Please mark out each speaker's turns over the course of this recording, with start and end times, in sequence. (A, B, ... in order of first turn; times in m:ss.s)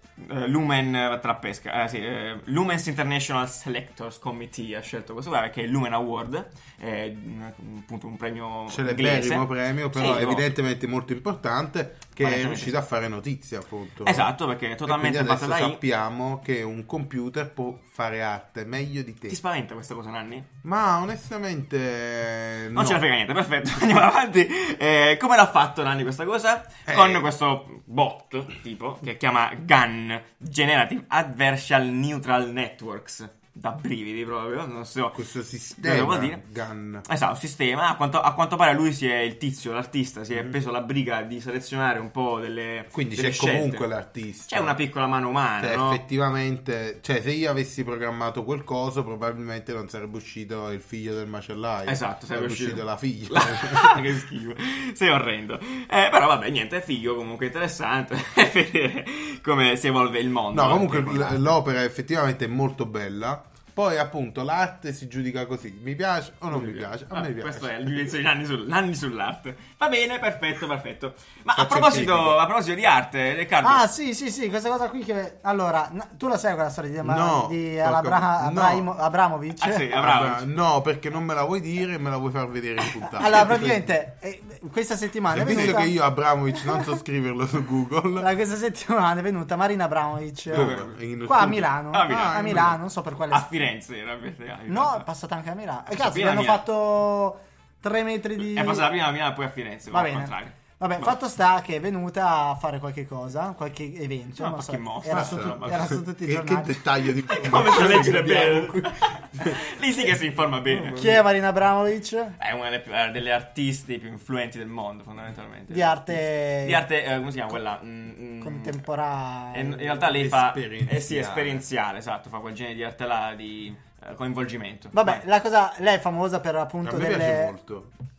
0:00.2-0:10.4 A
0:08.7-0:14.3 B
0:12.2-0:12.7 A
0:14.0-0:15.8 A
0:14.8-0:19.4 B
0:19.3-0:20.5 A
0:20.6-0:23.0 B
0:22.7-0:35.2 A
0:26.9-0:27.3 B
0:35.1-0:37.0 B
0:35.8-0:36.4 A
0:37.0-0:43.8 A
0:42.9-0:44.7 B
0:44.5-0:46.0 A
0:45.6-0:54.0 B
0:51.8-1:01.5 A
1:00.5-1:07.9 B
1:06.5-1:13.8 A
1:11.5-1:12.4 B
1:13.6-1:19.9 C
1:17.0-1:18.8 B
1:19.6-1:20.5 A
1:19.9-1:23.9 B
1:23.0-1:26.0 C
1:25.3-1:28.3 B
1:28.2-1:30.7 C
1:30.5-1:31.0 A
1:30.5-1:32.8 B
1:31.2-1:33.5 C
1:31.9-1:32.6 A
1:33.3-1:35.0 A
1:34.7-1:38.9 C
1:35.9-1:36.6 A
1:38.4-1:41.1 A
1:39.9-1:46.8 C
1:44.4-1:46.0 A
1:45.1-1:49.6 B
1:47.3-1:51.0 A
1:50.7-1:51.2 B
1:50.9-1:52.4 C
1:52.4-1:58.8 A
1:55.7-1:56.8 C
1:58.4-2:00.0 C
1:59.5-2:05.2 A
2:00.1-2:01.6 B
2:04.9-2:07.6 C
2:06.8-2:07.9 B